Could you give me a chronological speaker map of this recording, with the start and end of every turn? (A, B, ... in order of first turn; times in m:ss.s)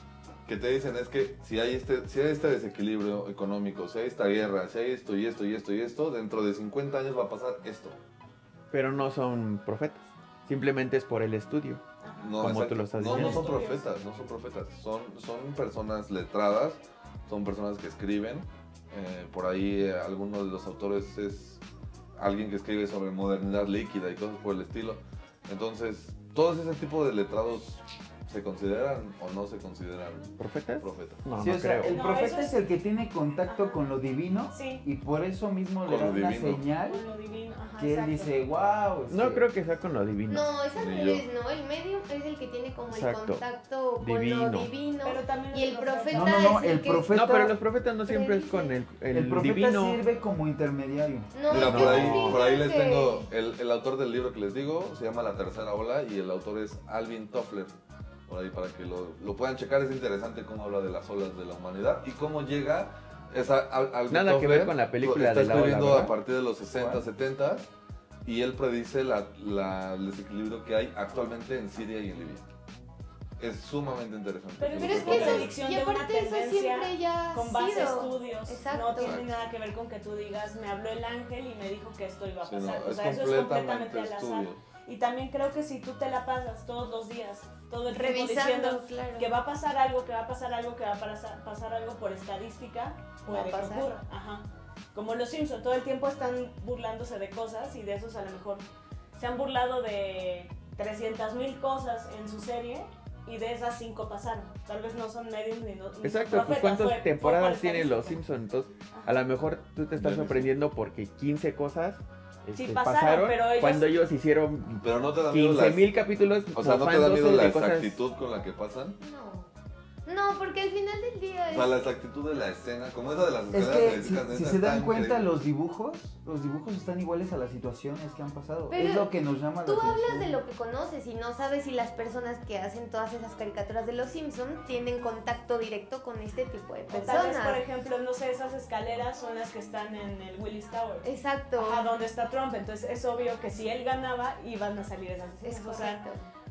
0:00.4-0:08.0 A
0:08.7-0:11.8 B
0:12.0-0:13.8 C
0:12.2-0:21.6 A
0:12.4-0:13.5 B
0:22.2-0:31.2 A
0:30.4-0:32.0 B
0:31.4-0:37.0 D
0:31.9-0:32.6 C
0:33.4-0:33.8 C
0:34.5-0:34.8 C
0:35.8-0:36.6 A
0:36.8-0:38.4 C
0:37.8-0:39.5 D
0:39.1-0:40.5 B
0:40.3-0:47.1 E
0:40.7-0:41.2 A
0:42.9-0:43.4 B
0:44.0-0:44.7 B
0:45.0-0:46.5 C
0:46.1-0:47.5 D
0:47.1-0:50.0 B
0:48.0-0:48.8 E
0:49.1-0:51.3 D
0:51.3-0:53.3 E
0:51.5-0:57.7 A
0:51.5-0:52.4 B
0:58.3-1:07.7 A
1:04.1-1:06.1 B
1:06.8-1:07.0 D
1:08.2-1:12.4 A
1:13.4-1:15.5 A
1:14.6-1:38.6 C
1:14.8-1:19.2 E
1:19.0-1:19.3 A
1:22.4-1:24.6 A
1:27.9-1:29.3 E
1:33.3-1:33.9 E
1:39.1-1:48.2 C
1:46.0-1:58.0 B
1:48.9-1:49.2 C
1:50.0-1:50.5 A
1:52.5-1:53.9 C
1:54.8-1:56.0 A
1:56.5-1:59.0 A
1:59.0-1:59.5 E
2:00.0-2:01.8 E
2:01.5-2:05.3 A
2:03.5-2:10.4 D
2:08.7-2:09.1 E
2:09.6-2:17.6 E
2:16.9-2:26.0 C
2:21.0-2:21.9 E
2:25.4-2:26.2 E